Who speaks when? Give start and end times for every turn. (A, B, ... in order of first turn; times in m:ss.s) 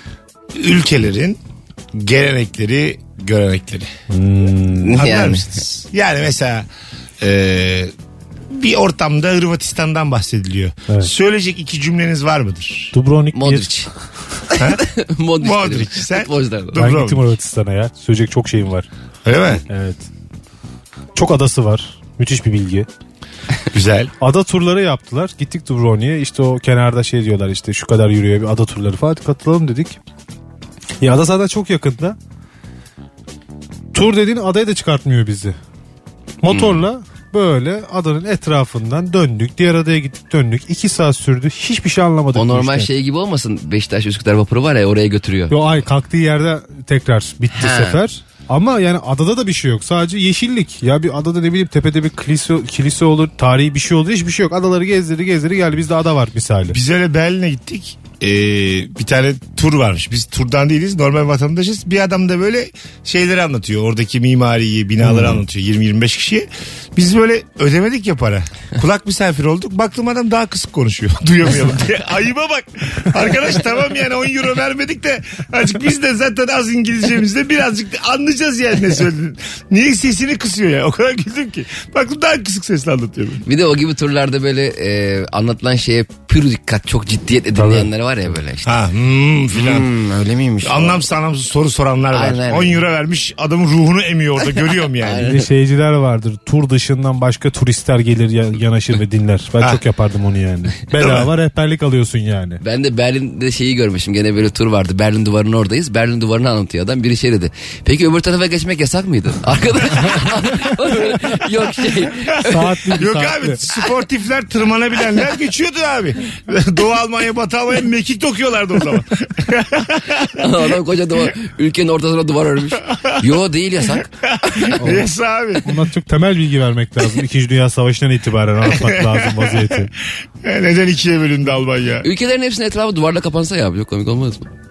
0:00.6-0:01.4 A
0:01.9-0:03.9 A
0:04.1-0:05.1 B
0:04.8-0:05.5 C
0:05.0-0:06.7 A
0:07.2-0:07.9 A
0:08.5-0:13.0 A
0:12.9-0:13.8 B
0:13.3-0:13.9 C
0:14.5-0:16.8 C
0:14.6-0:14.8 A
0:15.4-0:17.3 A
0:16.8-0:18.9 B
0:19.2-0:19.6 A
0:19.7-0:20.0 B
0:21.2-0:22.9 B
0:23.7-0:24.1 A
0:24.2-0:30.0 B
0:31.0-0:32.2 B
0:33.9-0:35.6 B
0:36.4-0:42.9 B
0:36.5-0:36.8 C
0:42.3-0:45.6 C
0:45.5-0:56.8 B
0:47.6-0:48.0 C
0:56.7-1:23.4 A
1:05.1-1:05.4 B
1:23.4-1:28.7 C
1:27.6-1:27.9 B
1:28.6-1:29.9 A
1:29.5-1:31.0 C
1:30.6-1:35.3 A
1:32.1-1:32.8 C
1:35.0-1:35.5 C
1:35.2-1:42.6 B
1:41.0-1:41.3 A
1:42.6-1:53.0 C
1:52.4-1:53.6 B
1:52.9-2:00.7 A
2:00.3-2:04.8 C
2:02.9-2:03.3 A
2:03.9-2:05.8 A
2:04.8-2:05.1 B
2:05.6-2:09.9 B
2:08.7-2:09.9 A
2:10.4-2:12.1 A
2:12.0-2:14.5 C